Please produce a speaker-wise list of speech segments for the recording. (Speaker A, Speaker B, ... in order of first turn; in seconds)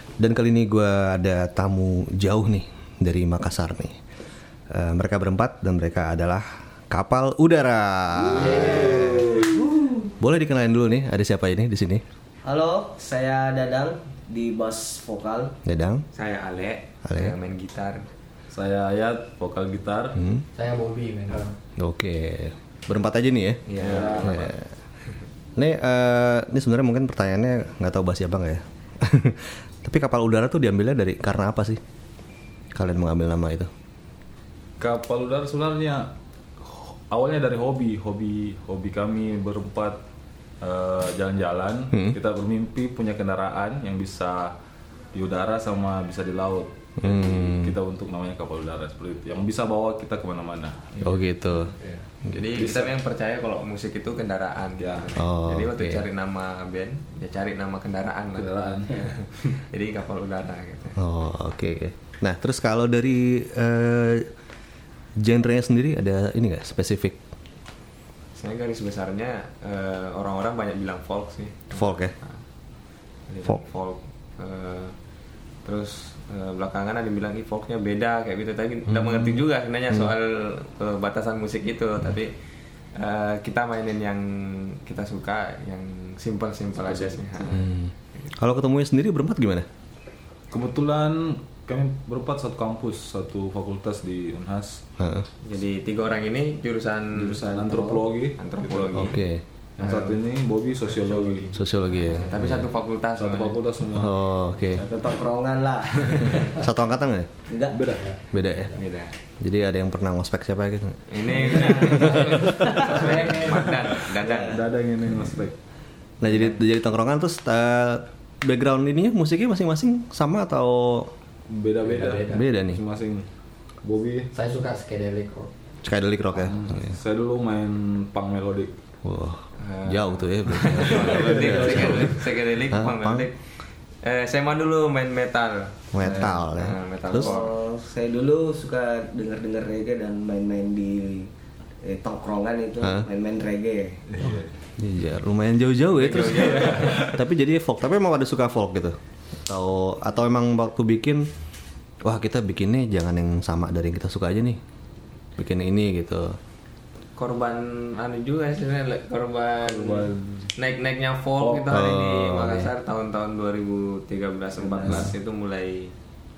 Speaker A: 0.2-4.0, 4.7-9.4, 10.2-12.0, 15.6-16.0, 17.1-17.4, 20.1-20.4, 21.8-24.7, 25.6-31.8, 32.7-33.7, 41.9-42.2, 47.0-47.7, 51.0-51.7, 55.1-56.0, 61.0-64.3, 65.2-67.2, 71.7-72.1, 78.9-80.1, 87.5-89.7, 95.0-95.3, 98.9-99.4, 101.5-102.7, 103.9-104.8, 106.3-107.3, 108.3-108.7, 109.4-112.9, 116.2-121.1, 122.3-122.8, 125.8-127.0, 129.0-133.3, 135.9-137.3, 142.8-143.1, 144.8-151.2, 152.0-154.6, 155.4-156.4, 161.7-162.7
Speaker B: 8.3-9.5, 12.4-15.6, 104.8-106.5, 107.5-107.8, 111.4-114.6, 137.1-141.3, 141.8-144.0, 164.6-165.1
Speaker C: 8.7-9.1, 20.5-21.6, 51.0-52.1, 101.0-101.3, 107.9-108.8, 121.8-122.5, 124.3-125.5, 131.1-132.0
Speaker D: 8.9-9.5, 18.5-20.2, 23.8-24.4, 34.8-40.0, 40.6-44.5, 45.1-51.0, 52.5-52.9, 54.8-55.1, 58.3-59.1, 86.8-87.5, 90.5-94.8, 97.1-99.1, 99.8-101.6, 103.2-105.1, 107.7-108.1, 114.2-115.5, 121.5-123.3, 123.8-124.3, 126.4-128.7, 136.0-136.3, 144.1-144.5, 146.7-147.1, 159.6-160.5, 161.4-161.7
Speaker E: 16.1-18.1, 23.7-24.6, 52.3-61.0, 68.3-72.4, 73.3-74.9, 75.6-82.3, 82.9-87.7, 95.4-99.2, 99.8-100.2, 102.0-103.6, 108.8-109.1, 111.1-114.7, 129.6-133.4, 134.0-137.5, 145.9-147.2, 157.2-165.9